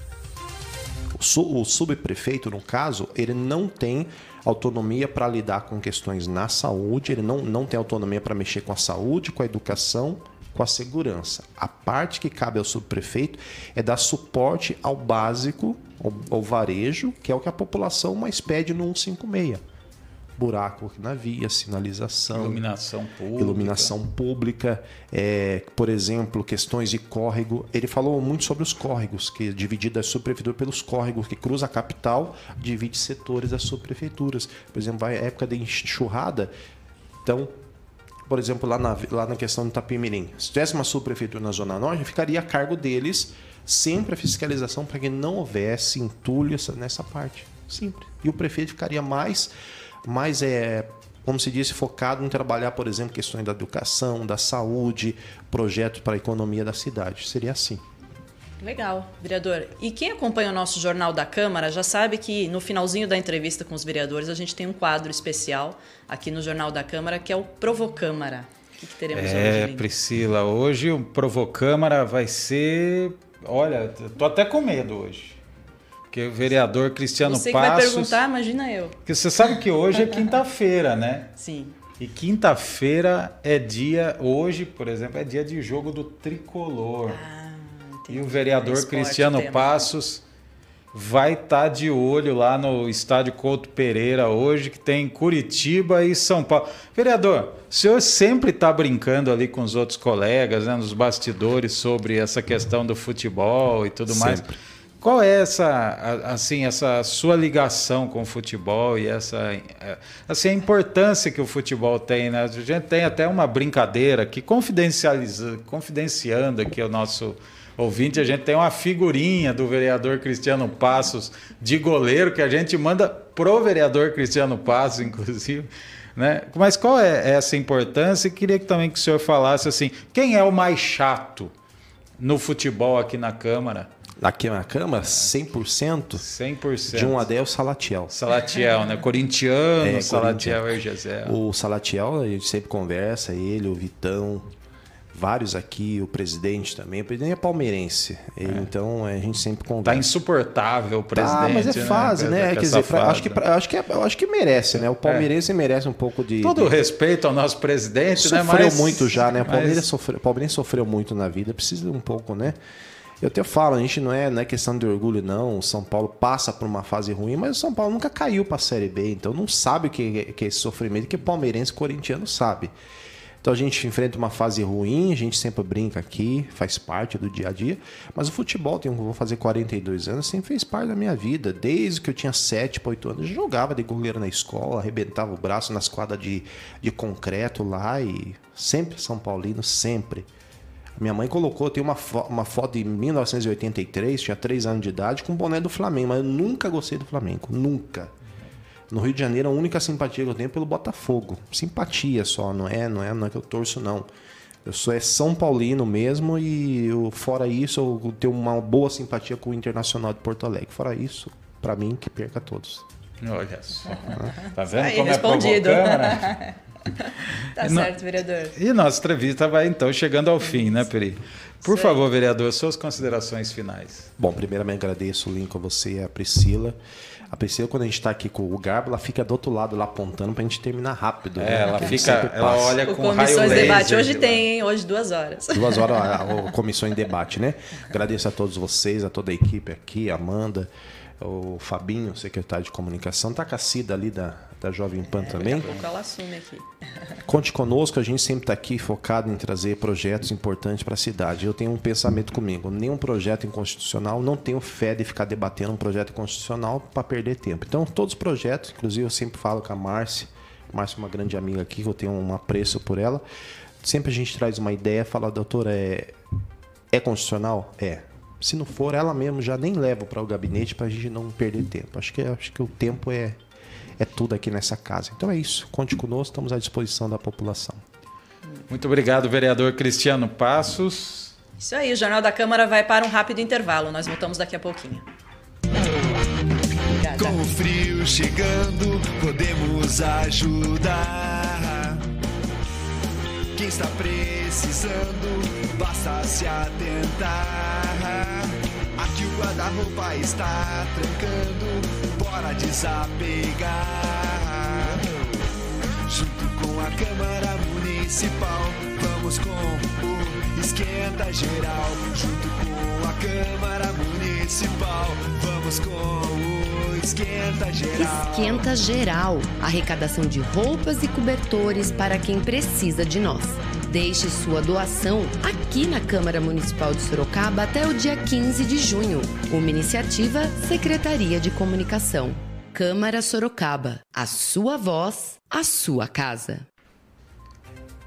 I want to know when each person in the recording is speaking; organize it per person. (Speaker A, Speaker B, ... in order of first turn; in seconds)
Speaker A: 1.1-19.6, 20.4-22.6, 23.4-36.5, 37.2-37.5, 38.3-49.5, 50.0-57.8, 104.1-104.6, 134.2-136.3, 136.9-138.1, 139.8-140.7, 141.2-144.5, 145.1-150.1, 151.1-156.8, 158.2-162.6, 163.2-172.7, 173.4-190.3, 191.0-198.1, 198.9-204.1, 204.7-212.8, 224.2-226.8, 227.3-232.8, 235.5-240.7, 241.2-245.8, 247.3-263.2, 263.8-266.1, 266.9-273.4, 274.0-277.8
Speaker B: 22.3-23.9, 69.1-75.4, 76.1-78.2, 79.1-81.3, 82.0-87.2, 88.1-90.2, 90.9-104.5, 105.0-131.5, 132.2-133.9, 136.2-137.2, 138.1-141.4, 149.8-153.4, 155.0-155.3, 156.4-159.9, 213.2-216.5, 217.6-217.9, 218.6-224.1, 231.4-234.4, 278.7-281.3
Speaker C: 58.6-69.9, 77.2-79.0, 81.4-81.8, 87.1-89.8, 214.8-218.6, 221.6-222.0, 232.8-236.4, 245.1-246.7, 281.6-285.1, 287.0-287.4
Speaker D: 287.1-292.0, 293.6-305.1, 306.1-318.7
Speaker E: 317.9-336.7